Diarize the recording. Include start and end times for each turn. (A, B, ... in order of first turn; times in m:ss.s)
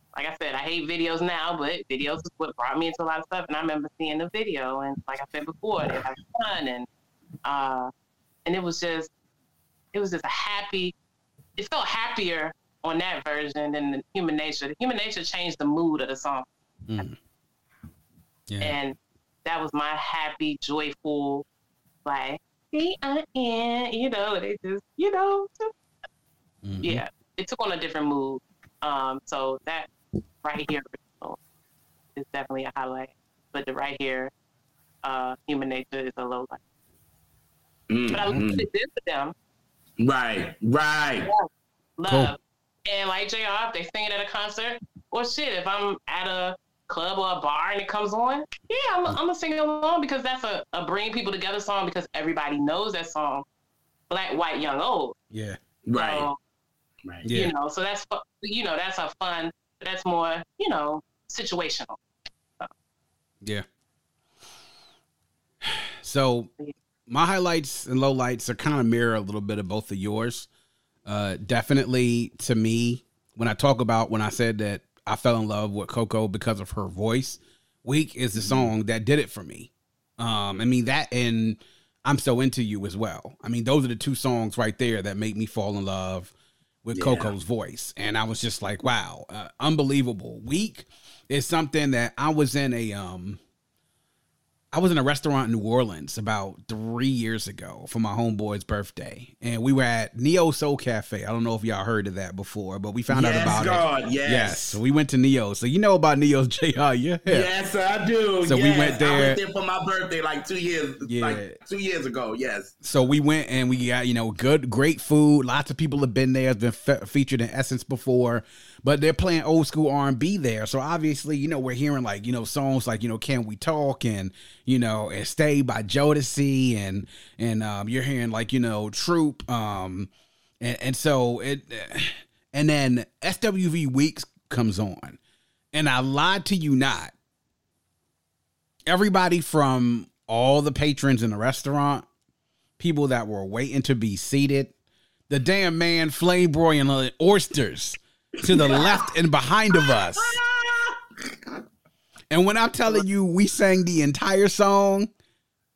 0:00.2-0:06.9 A
0:07.4-0:07.9 A
0:08.4-0:09.1 A
0:09.9-0:10.9 A
0:11.6-0:17.1 A
0:16.9-0:17.2 B
0:18.5-0:18.8 B
0:18.6-0:21.4 A
0:22.0-0:25.7 A
0:26.6-0:27.0 B
0:26.8-0:29.9 A
0:30.4-0:31.4 A
0:32.2-0:34.3 A
0:35.0-0:36.6 A
0:37.9-0:38.6 C
0:38.1-0:39.3 A
0:38.3-0:38.6 B
0:40.0-0:41.3 C
0:41.3-0:53.4 A
0:42.1-0:42.3 B
0:54.1-0:55.2 A
0:55.3-0:55.6 B
0:55.9-0:56.3 C
0:55.9-0:56.4 A
0:57.2-0:57.5 B
0:57.3-1:02.0 A
1:05.6-1:06.5 B
1:07.1-1:10.5 B
1:11.0-1:26.3 B
1:18.4-1:18.7 C
1:26.8-1:33.4 B
1:26.9-1:27.3 C
1:34.7-1:47.5 B
1:43.1-1:44.8 C
1:47.3-1:52.7 C
1:48.4-1:49.4 B
1:51.0-1:51.6 B
1:52.8-2:10.1 B
2:10.6-2:15.2 B
2:15.7-2:17.1 B
2:18.9-2:22.1 B
2:22.8-2:24.7 B
2:25.3-2:30.4 B
2:28.4-2:29.0 C
2:30.2-2:31.0 C
2:32.3-2:35.1 B